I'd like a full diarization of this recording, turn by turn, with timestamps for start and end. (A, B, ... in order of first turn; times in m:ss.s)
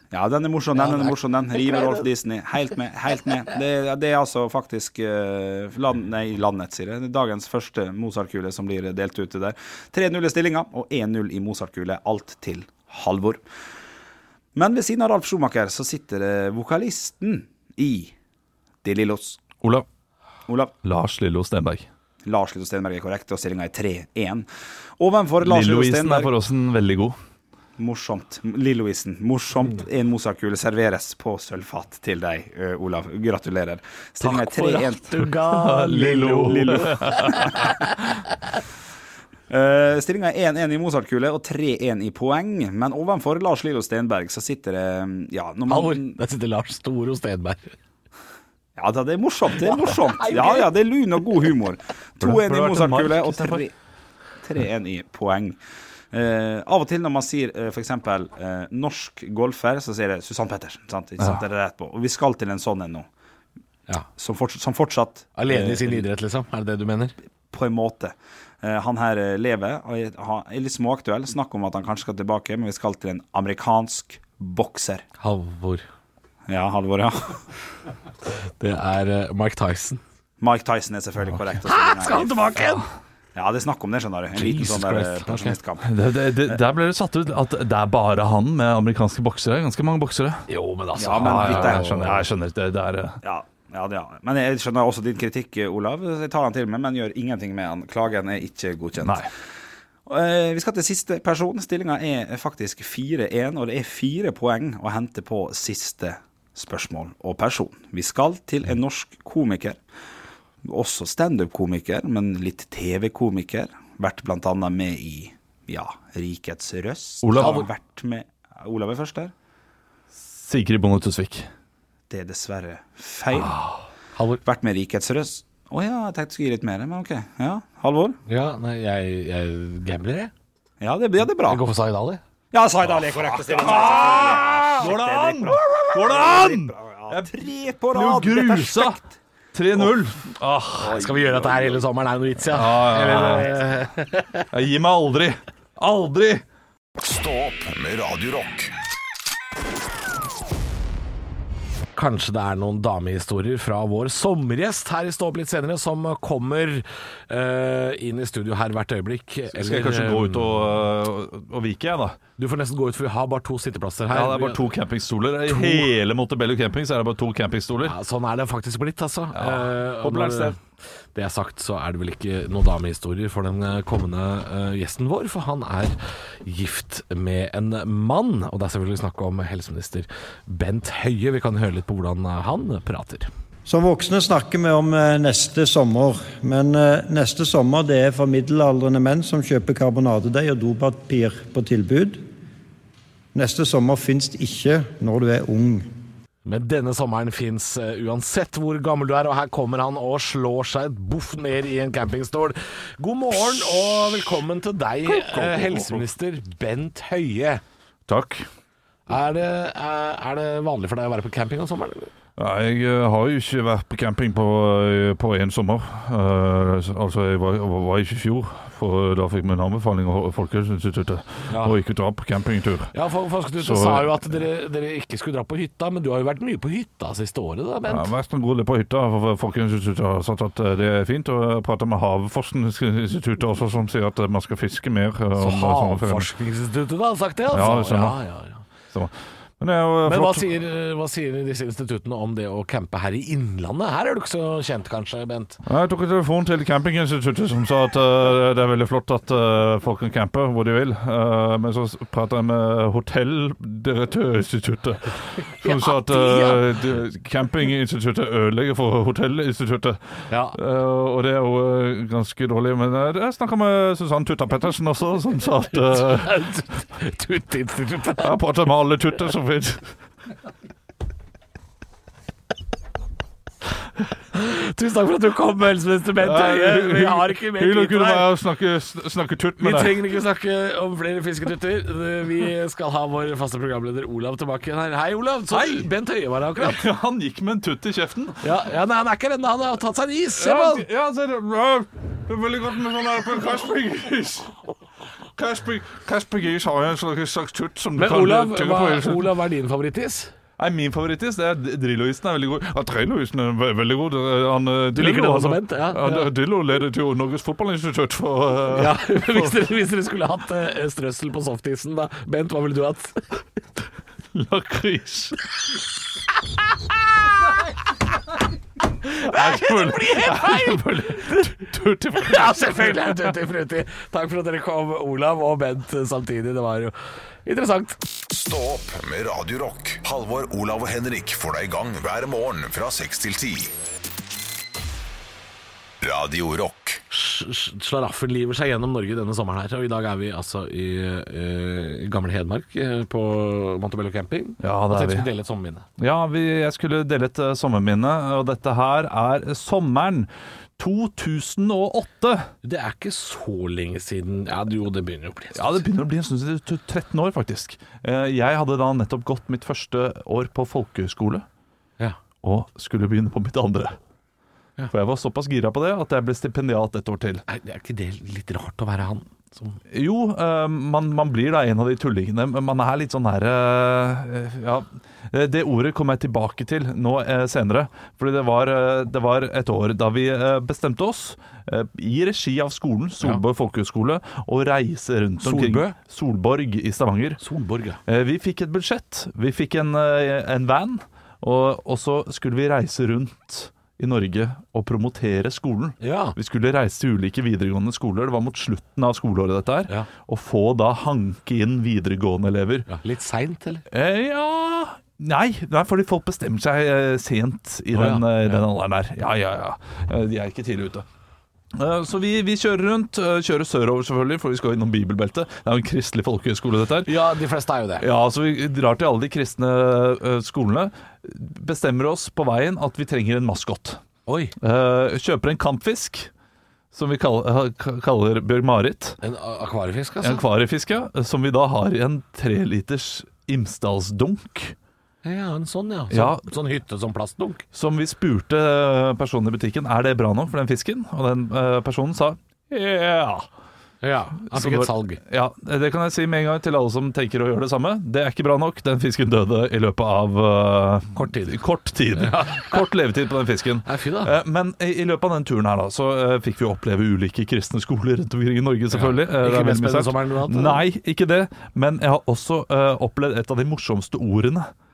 0:00.1-0:13.4 A
0:00.8-0:02.0 B
0:14.5-0:18.1 A
0:18.8-0:19.4 A
0:20.5-0:20.7 A
0:20.8-0:21.9 C
0:22.2-0:24.5 A
0:25.0-0:26.3 A
0:25.4-0:27.2 C
0:27.8-0:35.2 A
0:34.2-0:37.8 B
0:35.5-0:37.7 C
0:35.9-0:37.7 A
0:39.5-0:46.1 A
0:45.7-0:47.7 B
0:48.8-0:53.7 A
0:49.5-0:50.7 B
0:52.2-0:53.6 C
0:54.4-0:55.6 A
0:56.1-1:03.1 A
1:04.2-1:06.0 A
1:05.4-1:07.1 B
1:07.5-1:15.0 A
1:15.2-1:15.8 B
1:16.5-1:17.4 A
1:18.6-1:20.0 B
1:20.4-1:22.6 A
1:21.6-1:22.9 B
1:23.3-1:25.9 A
1:24.3-1:25.6 B
1:25.8-1:30.4 C
1:30.5-1:32.2 B
1:31.0-1:31.9 A
1:31.2-1:33.2 C
1:33.2-1:39.3 A
1:39.0-1:39.3 C
1:40.1-1:49.8 A
1:50.6-1:59.3 A
1:57.2-1:57.6 C
1:57.3-1:57.7 B
2:00.1-2:01.5 C
2:02.1-2:03.6 A
2:03.3-2:03.8 C
2:04.1-2:04.4 B
2:04.4-2:08.2 A
2:08.3-2:10.3 B
2:10.8-2:11.6 A
2:11.4-2:12.2 B
2:12.5-2:19.1 A
2:12.9-2:17.3 C
2:17.9-2:19.0 C
2:19.5-2:21.0 C
2:20.8-2:24.4 B
2:21.0-2:21.8 A
2:22.5-2:23.5 C
2:24.5-2:26.4 C
2:27.0-2:28.7 D
2:31.9-2:40.7 B
2:39.5-2:42.2 C
2:42.4-2:44.6 B
2:44.1-2:47.9 C
2:45.5-2:45.9 B
2:47.8-2:50.6 B
2:49.3-2:50.5 C
2:51.1-3:03.3 B
3:03.6-3:12.2 E
3:13.3-3:15.9 E
3:16.4-3:27.6 B
3:25.0-3:26.0 C
3:28.1-3:28.4 C
3:29.1-3:32.1 B
3:32.4-3:42.9 C
3:41.5-3:41.8 B
3:42.9-3:48.1 B
3:43.6-3:44.2 C
3:47.9-3:56.3 C
3:55.4-3:58.6 B
3:57.5-3:58.2 C
3:58.9-4:00.5 C
4:00.0-4:05.6 B
4:05.6-4:26.3 C
4:15.4-4:16.6 B
4:20.3-4:20.6 B
4:25.8-4:28.3 B
4:28.2-4:29.9 C
4:34.3-4:38.3 B
4:36.2-4:40.0 C
4:39.6-4:46.8 B
4:45.5-4:45.9 C
4:46.6-4:48.4 C
4:48.4-4:50.8 B
4:50.4-4:54.5 C
4:55.3-4:59.3 C
4:58.0-5:00.3 B
5:00.6-5:09.6 C
5:04.9-5:06.3 B
5:08.7-5:13.2 B
5:14.3-5:15.4 C
5:19.0-5:21.6 B
5:19.2-5:23.3 C
5:22.2-5:28.0 B
5:28.3-5:33.7 D
5:36.0-5:37.0 D
5:37.1-5:45.8 B
5:44.6-5:45.2 C
5:46.0-5:52.5 C
5:52.6-5:55.8 B
5:55.5-6:01.4 C
6:02.4-6:04.0 C
6:04.9-6:07.4 C
6:07.5-6:09.8 B
6:09.9-6:27.4 C
6:25.4-6:26.0 B
6:27.4-6:28.0 B
6:28.1-6:42.9 C
6:36.0-6:36.4 B
6:42.9-6:43.8 B
6:43.9-6:51.0 C
6:47.9-6:48.6 B
6:51.7-6:57.1 C
6:57.0-6:58.0 B
6:58.0-7:04.0 C
7:04.3-7:04.5 B
7:04.6-7:06.3 C
7:06.9-7:09.2 C
7:09.2-7:10.4 B
7:10.2-7:14.7 C
7:15.2-7:17.6 B
7:16.1-7:16.4 C
7:17.7-7:23.5 C
7:24.0-7:25.2 B
7:24.5-7:44.7 C
7:31.1-7:31.6 B
7:32.2-7:32.8 B
7:33.8-7:34.3 B
7:38.9-7:40.8 B